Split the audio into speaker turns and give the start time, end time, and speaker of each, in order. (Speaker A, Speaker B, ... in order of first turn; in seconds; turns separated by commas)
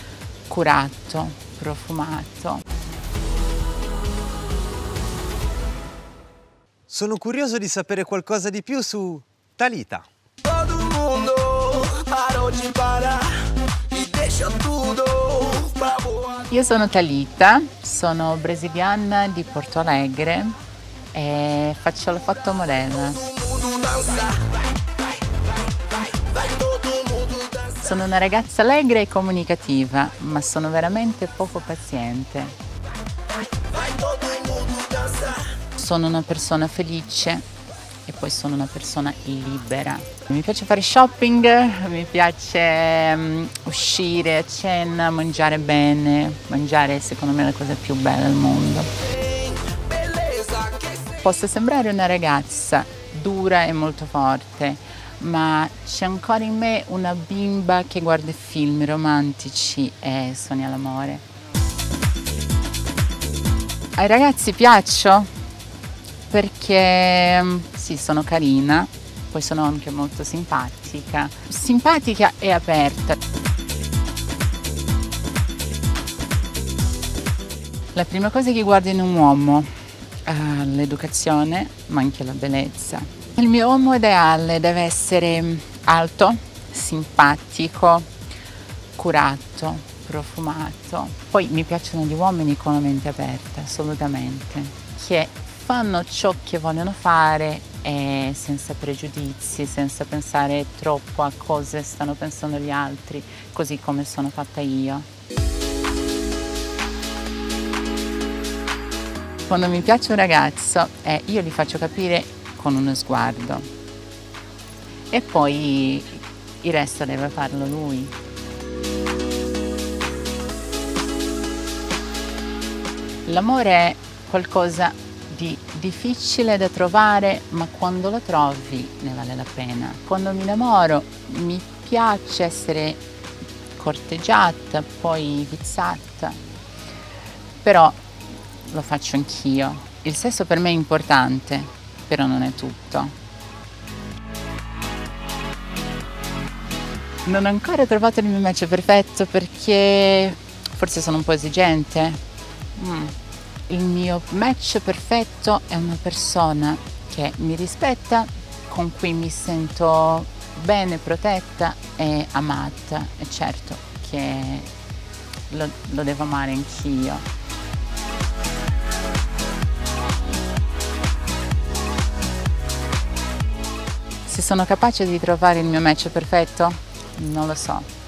Speaker A: 0.5-2.6, Speaker B: 6.9-10.1, Speaker C: 10.8-13.4, Speaker C: 13.9-16.0, Speaker A: 16.5-20.6, Speaker A: 21.1-23.3, Speaker C: 23.7-24.3, Speaker C: 26.9-27.2, Speaker A: 27.8-32.5, Speaker C: 34.0-35.4, Speaker A: 35.7-37.4, Speaker A: 38.0-48.9, Speaker C: 50.2-50.8, Speaker A: 51.2-61.2, Speaker A: 64.0-65.3, Speaker A: 66.3-73.2, Speaker A: 77.9-79.7, Speaker A: 80.2-88.1, Speaker A: 89.0-105.1, Speaker A: 109.5-113.7, Speaker A: 115.1-118.1, Speaker A: 123.2-133.0, Speaker A: 133.8-136.4, Speaker A: 137.6-143.1, Speaker A: 147.2-152.2, Speaker A: 152.8-153.2, Speaker A: 153.7-164.7, Speaker A: 165.5-167.2, Speaker A: 174.2-177.9